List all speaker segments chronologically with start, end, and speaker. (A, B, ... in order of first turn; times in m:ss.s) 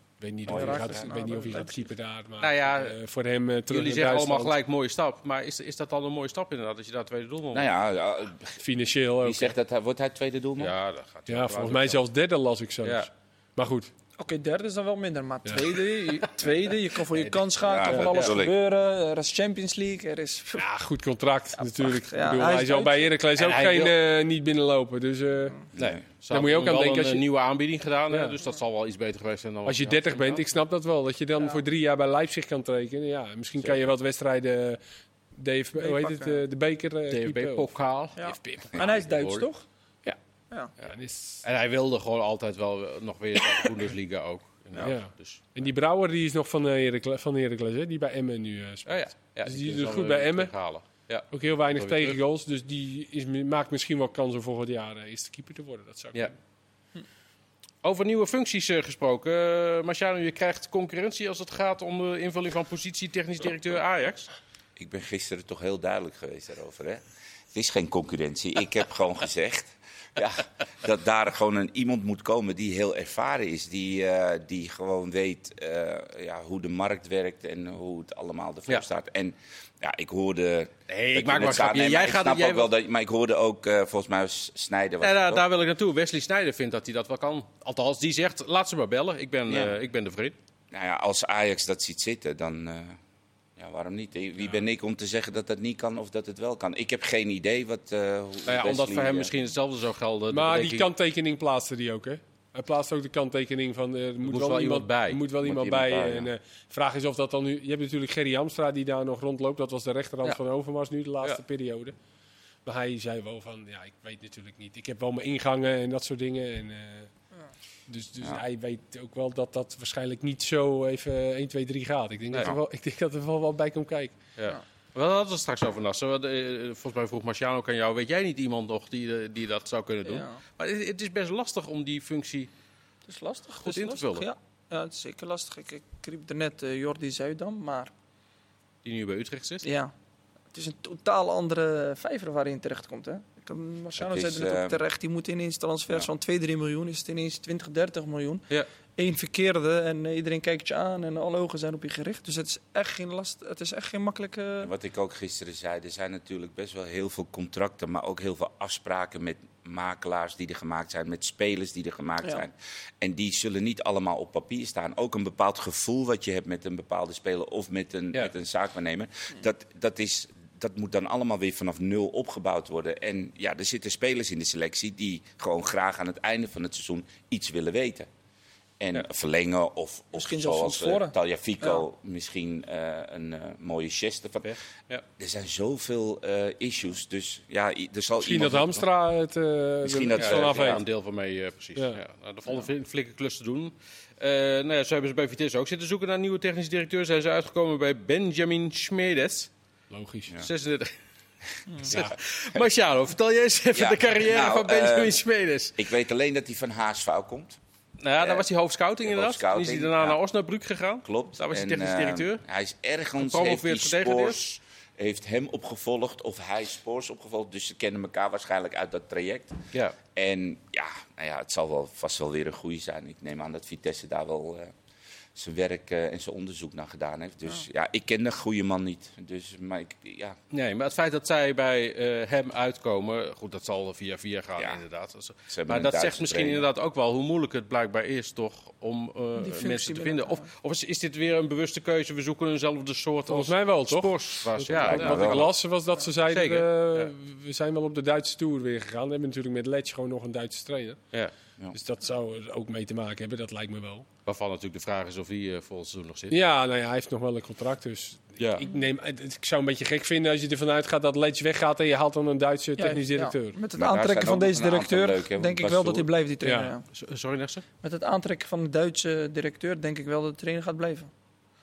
0:00.2-0:04.6 A
0:00.4-0:01.1 B
0:00.5-0:01.8 C
0:02.4-0:03.0 D
0:03.7-0:07.7 D
0:07.5-0:08.6 B
0:08.6-0:09.6 A
0:09.2-0:10.7 B
0:10.6-0:12.0 D
0:11.3-0:13.9 A
0:12.8-0:13.1 D
0:14.2-0:20.6 C
0:17.6-0:18.6 B
0:17.9-0:18.4 D
0:20.6-0:25.6 A
0:21.6-0:23.1 C
0:23.4-0:24.0 D
0:25.8-0:26.0 B
0:25.8-0:30.6 D
0:26.3-0:27.2 A
0:28.1-0:28.4 A
0:29.6-0:34.8 A
0:35.4-0:37.7 A
0:35.8-0:36.4 C
0:37.1-0:39.5 D
0:38.2-0:39.6 C
0:38.4-0:38.8 A
0:40.8-0:41.4 A
0:41.4-0:45.6 D
0:44.8-0:50.5 A
0:48.9-0:52.2 D
0:51.3-0:56.4 A
0:57.8-1:04.3 D
1:04.8-1:07.0 B
1:07.5-1:25.5 B
1:20.9-1:22.7 D
1:25.0-1:30.4 D
1:29.5-1:29.8 B
1:30.7-1:33.0 B
1:33.6-1:39.4 B
1:38.5-1:40.9 D
1:40.3-1:51.9 A
1:44.2-1:45.2 D
1:45.4-1:46.3 B
1:52.6-1:57.1 A
1:57.9-2:04.1 A
2:04.4-2:12.5 D
2:10.1-2:10.4 C
2:13.1-2:17.9 C
2:13.6-2:14.3 D
2:18.8-2:19.7 D
2:19.6-2:19.9 C
2:20.5-2:28.4 C
2:24.0-2:24.8 B
2:29.0-2:34.7 C
2:34.6-2:58.1 B
2:58.8-3:04.6 B
3:00.1-3:01.8 C
3:04.4-3:05.0 D
3:05.2-3:08.9 B
3:08.2-3:10.8 A
3:09.8-3:10.8 B
3:10.2-3:19.5 D
3:19.9-3:20.4 A
3:20.4-3:20.9 D
3:21.8-3:25.8 D
3:21.9-3:22.6 B
3:23.7-3:25.2 B
3:25.8-3:27.6 B
3:28.0-3:32.4 D
3:28.2-3:28.5 B
3:29.0-3:30.2 B
3:31.0-3:39.6 B
3:33.2-3:34.6 D
3:40.1-3:44.7 B
3:45.4-3:50.4 B
3:50.5-4:05.6 D
3:55.5-3:56.7 B
3:59.4-4:00.5 C
4:03.3-4:11.0 A
4:04.7-4:05.5 B
4:06.3-4:07.1 D
4:11.7-4:14.1 A
4:14.3-4:16.4 D
4:16.3-4:23.6 A
4:18.4-4:18.6 D
4:22.8-4:26.9 C
4:23.7-4:26.1 B
4:26.4-4:26.7 A
4:26.9-4:27.6 D
4:27.8-4:31.1 C